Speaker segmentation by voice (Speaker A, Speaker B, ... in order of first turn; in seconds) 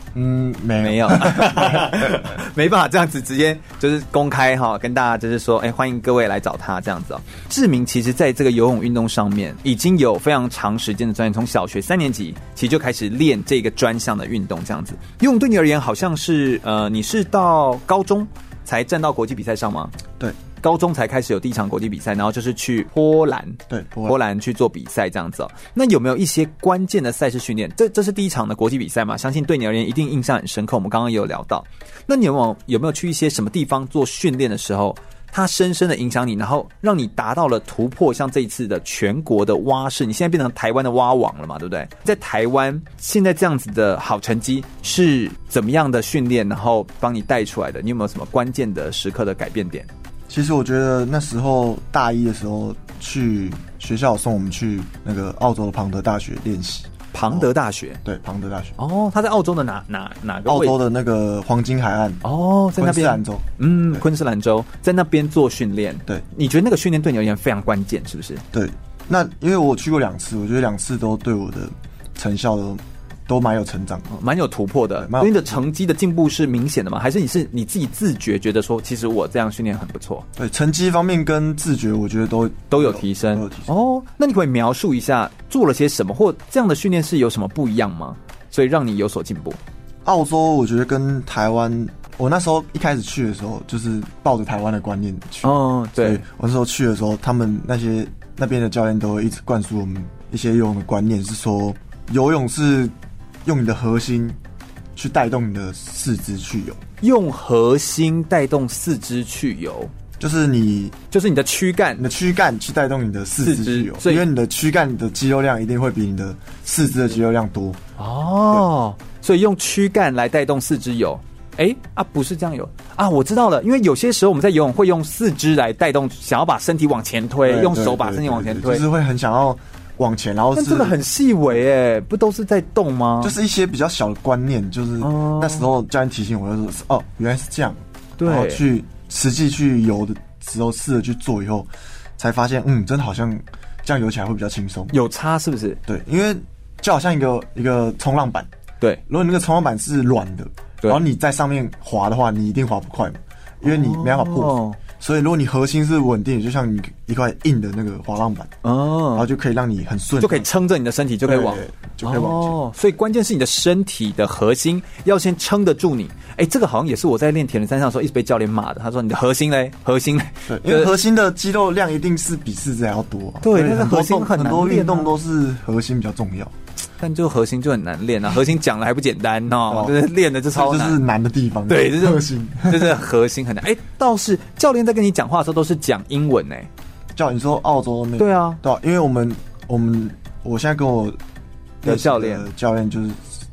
Speaker A: 0.1-2.3, 23.7-24.2, 50.3-57.5, 58.0-58.8, 60.5-62.2, 62.8-64.0, 68.5-74.1, 75.0-75.6, 80.4-83.7, 90.0-104.4, 104.9-106.8, 110.2-111.0, 112.0-117.8, 127.4-131.0, 133.2-144.9, 145.8-148.5, 149.1-158.5, 159.1-160.5, 161.2-162.6, 170.5-176.5, 179.7-180.0, 180.5-183.0, 187.1-191.2, 191.8-193.2
Speaker B: 0.8-19.9, 20.6-49.9, 57.1-58.0, 58.8-60.8, 62.2-68.4, 74.1-80.2, 82.7-89.6, 95.4-96.2, 107.0-109.9, 111.1-112.0, 113.4-114.2, 118.0-128.8, 130.5-133.3, 135.0-135.7, 138.2-138.6, 144.9-145.8, 153.6-154.8, 158.6-159.3, 160.2-170.9, 173.4-175.1, 177.0-181.0, 181.7-186.7, 188.2-188.6, 191.8-192.5